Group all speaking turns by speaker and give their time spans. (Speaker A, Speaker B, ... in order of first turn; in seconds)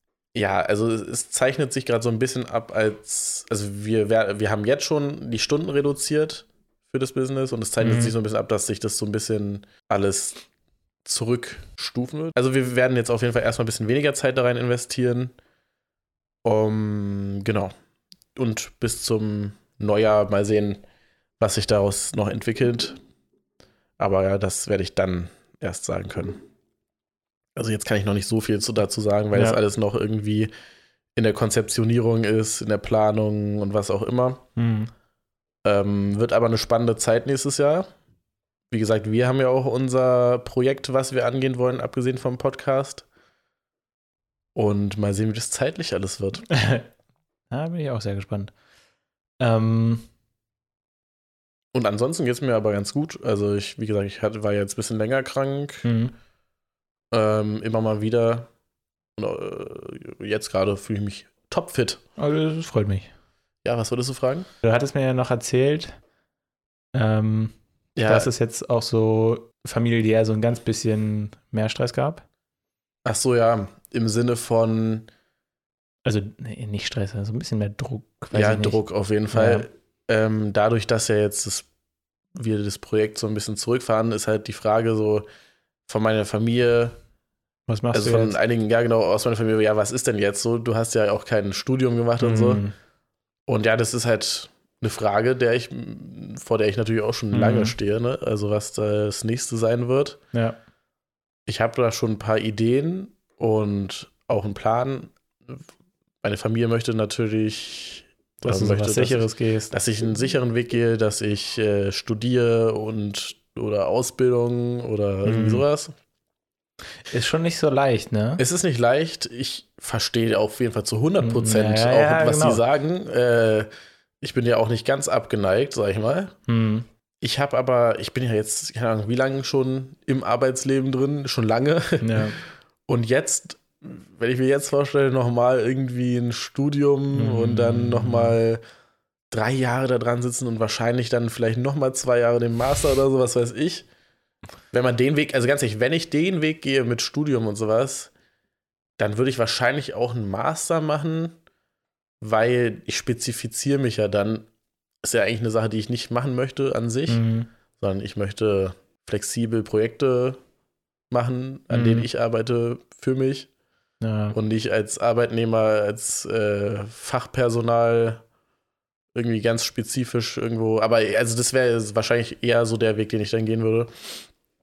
Speaker A: 0.3-10.4, 11.0-15.3, 16.4-17.7, 18.4-20.8, 21.4-23.0, 24.0-26.4, 27.6-30.5, 31.1-34.4, 35.6-37.9, 38.7-43.0, 44.5-46.5, 51.7-55.9, 57.1-58.5, 59.2-62.0, 63.6-64.5, 68.0-68.3, 73.0-75.1, 78.3-81.7, 82.3-85.2, 85.9-87.0, 87.9-92.6, 93.5-100.2, 101.5-105.6, 106.2-115.9, 118.4-123.7, 124.2-126.3, 127.2-132.3, 132.9-138.6, 139.3-143.9, 144.7-148.1, 149.0-151.3, 152.2-154.4, 155.0-157.2, 157.8-160.4, 161.1-163.5, 164.3-168.2, 169.1-174.1
Speaker B: 7.8-8.1, 29.3-29.6, 34.5-34.9, 46.5-46.9, 47.5-48.5, 49.4-50.1, 55.8-56.1, 62.2-63.1, 64.6-65.9, 66.9-67.5, 68.1-72.2, 76.0-78.8, 79.3-79.7, 87.7-88.4, 92.2-92.7, 97.3-97.8, 100.3-100.6, 108.4-109.7, 115.2-115.6, 117.1-118.4, 121.2-122.6, 126.5-126.9, 132.0-132.4, 137.1-138.4, 157.1-157.5, 161.7-162.1, 164.0-164.3